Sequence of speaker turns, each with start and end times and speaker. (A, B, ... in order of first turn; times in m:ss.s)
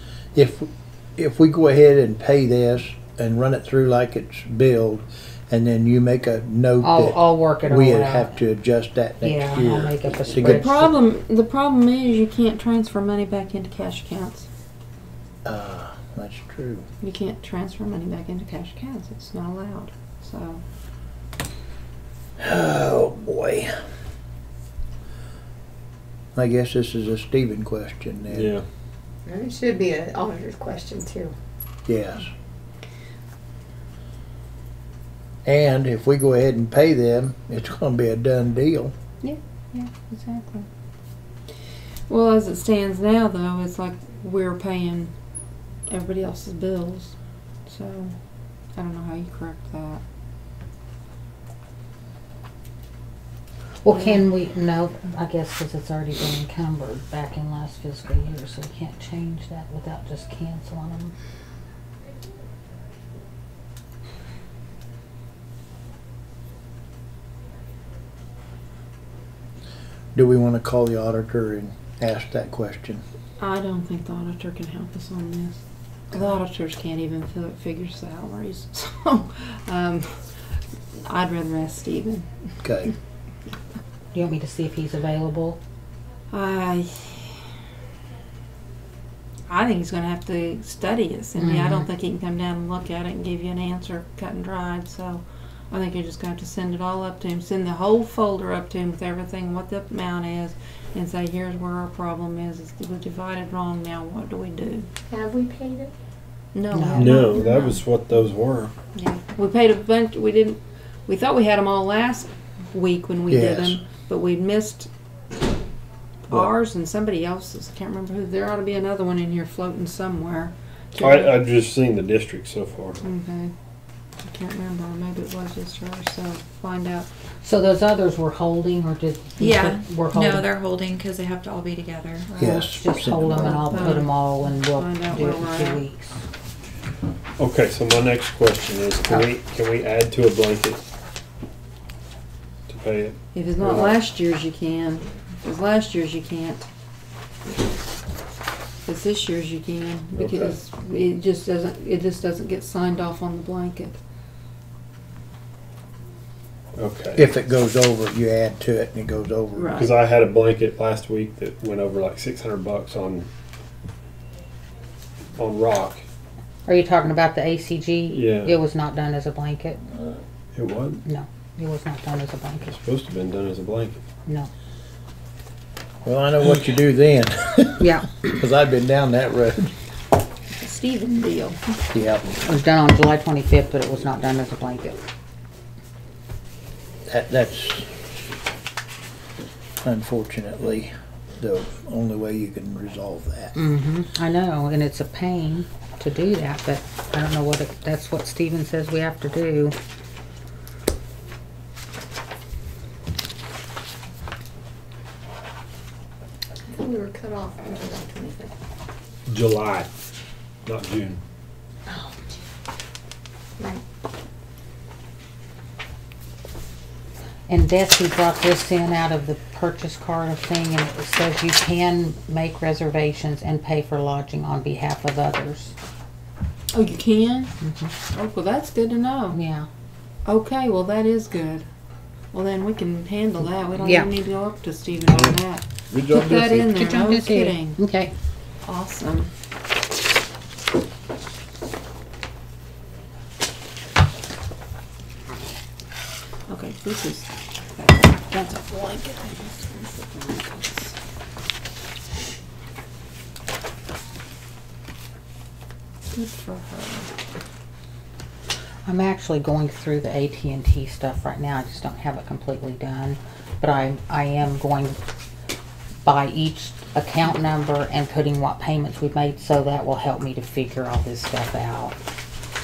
0:00.3-0:10.7 A
0:06.8-0:08.4 B
0:09.2-0:10.9 B
0:10.3-0:14.5 C
0:15.4-0:16.9 A
0:17.0-0:20.6 C
0:22.4-0:23.7 A
0:26.3-0:28.5 A
0:28.3-0:28.6 D
0:29.2-0:31.3 E
0:31.8-0:32.3 A
0:35.4-0:38.9 A
0:39.2-0:40.7 C
0:42.1-0:45.1 C
0:45.9-0:47.1 C
0:47.6-0:48.1 C
0:48.7-0:50.0 C
0:53.8-1:01.1 B
1:10.1-1:13.0 A
1:13.4-1:15.6 C
1:16.1-1:20.0 C
1:21.0-1:22.3 C
1:22.6-1:22.9 A
1:24.1-1:25.6 B
1:26.3-1:27.4 C
1:29.5-1:44.9 C
1:31.4-1:31.8 B
1:45.1-1:45.9 E
1:46.5-1:47.7 C
1:46.7-1:47.2 B
1:46.9-1:48.7 D
1:48.9-1:54.9 C
1:53.3-1:53.8 A
1:56.3-2:01.4 C
2:01.0-2:03.0 D
2:03.0-2:03.5 C
2:04.2-2:07.1 C
2:07.4-2:10.4 B
2:09.4-2:12.4 F
2:12.3-2:15.8 C
2:12.4-2:13.7 A
2:12.4-2:16.2 B
2:17.4-2:20.8 D
2:22.7-2:24.0 D
2:23.3-2:26.7 C
2:28.8-2:34.0 C
2:30.2-2:30.6 D
2:36.8-2:37.4 D
2:37.2-2:39.8 A
2:39.6-2:39.9 C
2:39.8-2:43.3 D
2:45.4-2:46.0 D
2:46.7-2:49.8 B
2:48.1-2:48.6 D
2:50.5-2:51.0 D
2:51.0-2:52.7 B
2:52.6-2:54.0 D
2:56.0-2:59.7 A
2:57.8-2:58.2 B
3:00.5-3:01.7 C
3:01.9-3:02.3 A
3:02.4-3:05.0 B
3:07.1-3:07.9 A
3:09.8-3:13.5 A
3:13.6-3:19.7 B
3:26.6-3:28.5 E
3:29.3-3:29.9 D
3:30.6-3:31.2 D
3:31.9-3:32.4 E
3:37.5-3:45.7 B
3:46.7-3:47.5 C
3:47.6-3:47.9 B
3:48.1-3:49.4 C
3:49.3-3:49.7 B
3:50.2-3:51.6 C
3:52.3-3:57.8 C
3:53.8-3:54.1 B
3:56.2-3:58.1 B
3:58.6-3:59.3 C
4:06.5-4:11.0 C
4:16.1-4:17.1 C
4:18.8-4:25.0 B
4:26.0-4:31.9 B